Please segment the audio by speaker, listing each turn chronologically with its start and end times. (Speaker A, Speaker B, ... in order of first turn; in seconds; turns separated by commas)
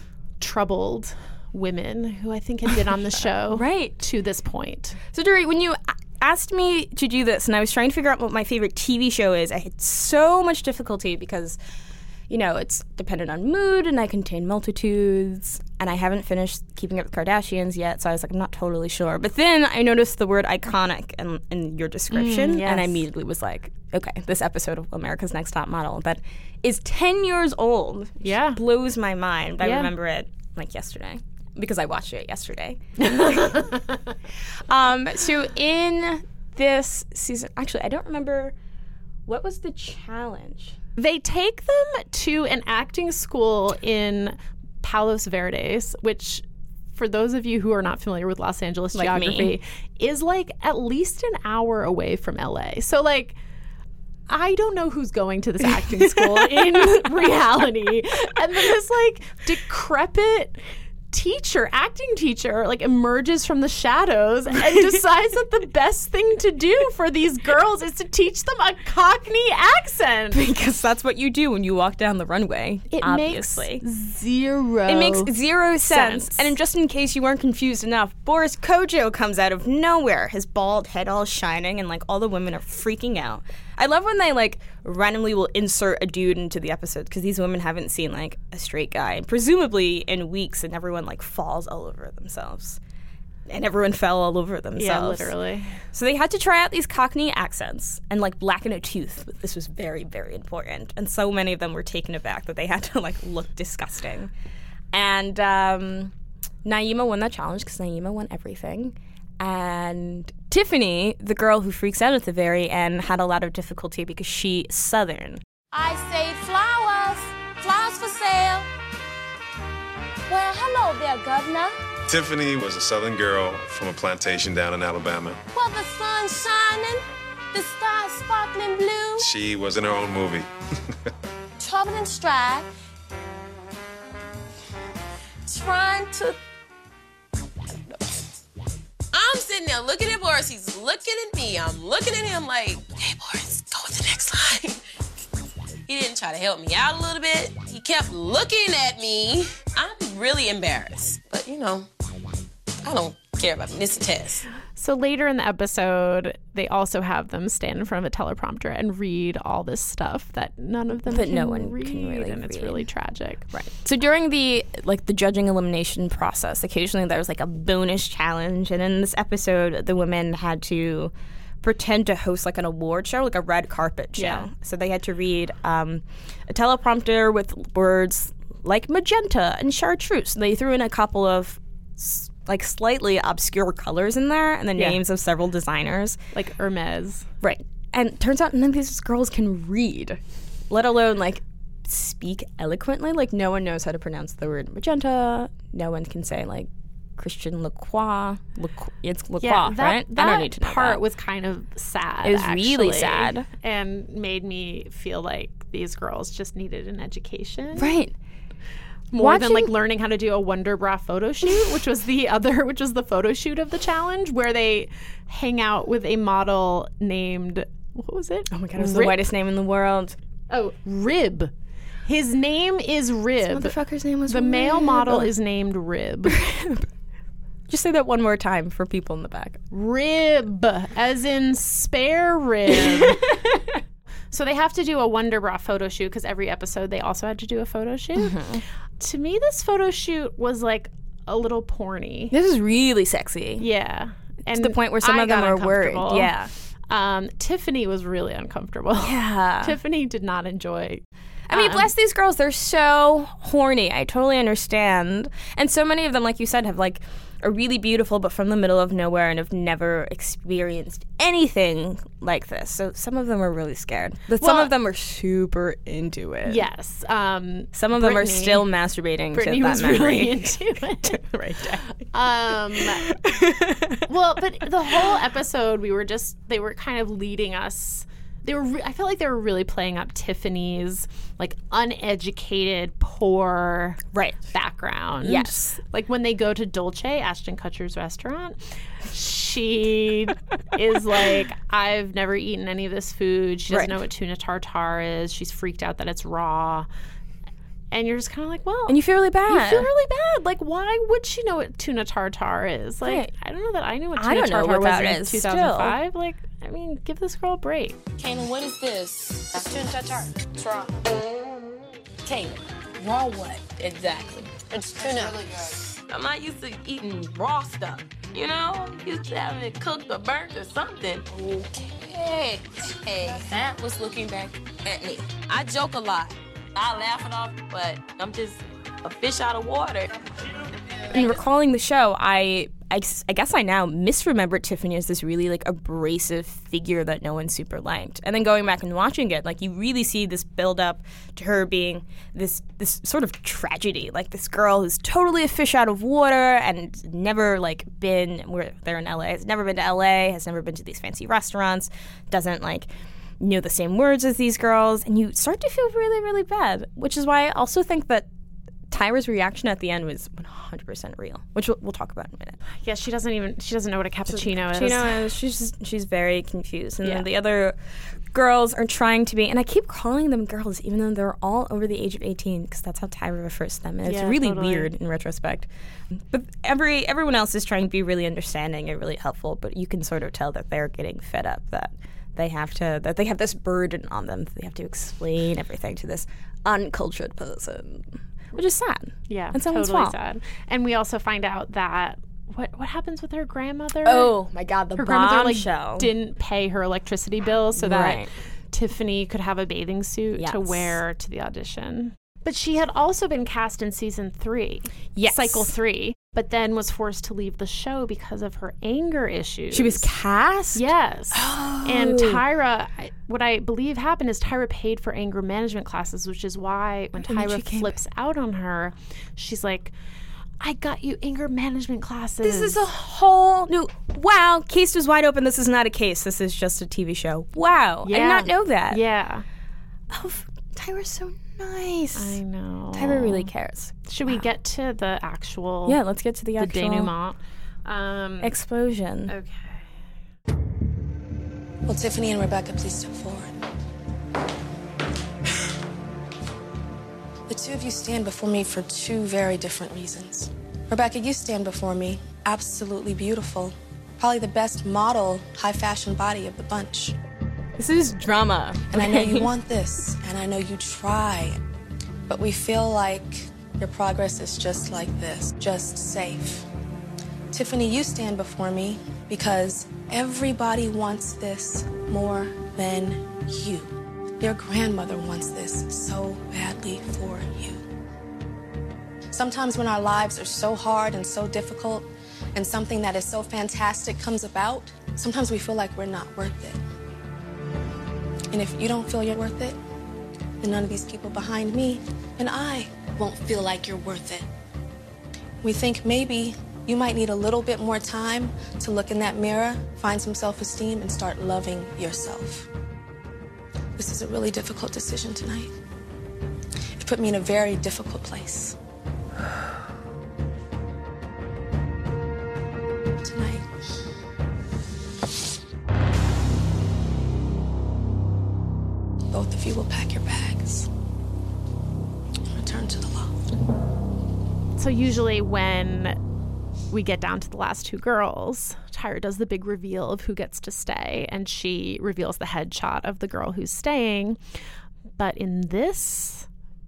Speaker A: 0.4-5.0, Speaker B: 3.5-4.0, Speaker B: 5.1-11.6, Speaker B: 12.3-33.7, Speaker A: 22.1-23.1, Speaker A: 28.2-28.6, Speaker A: 29.6-29.9, Speaker A: 33.1-33.6, Speaker B: 34.7-38.5, Speaker B: 39.3-40.8, Speaker A: 41.0-53.4, Speaker B: 48.9-49.6, Speaker A: 54.3-60.6, Speaker B: 56.2-57.1, Speaker A: 61.1-70.4, Speaker B: 70.3-73.8, Speaker A: 72.9-75.3, Speaker B: 74.9-92.8, Speaker A: 75.9-76.5, Speaker B: 93.5-95.3, Speaker A: 94.8-95.8, Speaker B: 95.9-104.3, Speaker B: 104.9-106.1, Speaker B: 106.7-115.4, Speaker C: 115.7-118.7, Speaker C: 120.3-121.8, Speaker D: 122.1-125.4, Speaker C: 125.5-129.3, Speaker D: 129.2-130.5, Speaker C: 131.6-132.7, Speaker C: 135.5-136.4, Speaker E: 139.1-144.8, Speaker E: 145.9-151.9, Speaker E: 152.8-154.4, Speaker A: 154.8-163.5, Speaker B: 161.1-162.9, Speaker B: 163.5-186.2, Speaker A: 174.2-174.5, Speaker A: 186.3-187.3, Speaker B: 187.4-190.2, Speaker B: 190.7-201.0, Speaker A: 199.4-208.0, Speaker B: 202.2-203.5, Speaker B: 207.8-208.1, Speaker B: 209.1-209.7, Speaker A: 209.1-219.2, Speaker B: 218.5-220.2, Speaker A: 220.5-221.5, Speaker A: 222.1-223.7, Speaker B: 223.4-225.3, Speaker A: 224.3-226.4, Speaker B: 226.3-226.9, Speaker B: 227.7-229.6, Speaker A: 229.7-233.4, Speaker A: 234.3-238.4, Speaker B: 238.2-238.6, Speaker A: 239.0-242.3, Speaker B: 242.3-243.7, Speaker A: 243.6-246.3, Speaker B: 244.5-246.5, Speaker A: 246.9-251.9, Speaker B: 249.0-249.8, Speaker B: 251.5-266.7, Speaker A: 264.4-264.7, Speaker A: 266.4-268.7, Speaker B: 267.8-272.1, Speaker A: 269.3-271.2, Speaker A: 272.1-273.1, Speaker B: 272.8-274.1, Speaker A: 274.1-296.9, Speaker B: 284.1-284.4, Speaker B: 285.2-285.8, Speaker B: 293.7-294.0, Speaker A: 297.9-308.0, Speaker B: 298.9-299.9, Speaker B: 303.0-303.3, Speaker B: 304.2-306.0, Speaker E: 308.2-311.1, Speaker E: 312.2-330.1, Speaker B: 331.1-352.9, Speaker B: 353.4-358.3, Speaker B: 358.9-362.6, Speaker A: 362.8-365.2, Speaker B: 364.3-367.8, Speaker B: 368.3-390.2, Speaker A: 374.1-374.9, Speaker A: 389.3-394.3, Speaker B: 394.1-396.1, Speaker A: 395.0-410.1, Speaker B: 397.8-398.3, Speaker B: 400.4-401.0, Speaker B: 405.1-405.7, Speaker B: 409.7-412.4, Speaker A: 410.7-419.9, Speaker B: 417.2-418.0, Speaker A: 420.6-422.8, Speaker B: 422.4-429.0, Speaker A: 428.0-429.4, Speaker B: 430.1-432.4, Speaker A: 432.1-433.5, Speaker B: 432.9-434.4, Speaker A: 434.1-436.0, Speaker B: 435.9-437.1, Speaker A: 436.6-438.6, Speaker B: 438.4-439.4, Speaker A: 439.3-439.9, Speaker F: 441.9-443.5, Speaker F: 447.5-457.2, Speaker B: 457.8-459.6, Speaker F: 458.9-461.6, Speaker F: 462.3-466.7, Speaker F: 467.5-477.8, Speaker F: 479.3-486.8, Speaker F: 488.5-489.8, Speaker F: 490.6-494.5, Speaker F: 495.6-502.7, Speaker F: 504.0-505.7, Speaker F: 507.0-508.8, Speaker F: 513.2-513.6, Speaker F: 519.3-520.9, Speaker F: 522.5-523.3, Speaker A: 524.8-526.2, Speaker A: 526.9-534.4, Speaker A: 535.2-536.5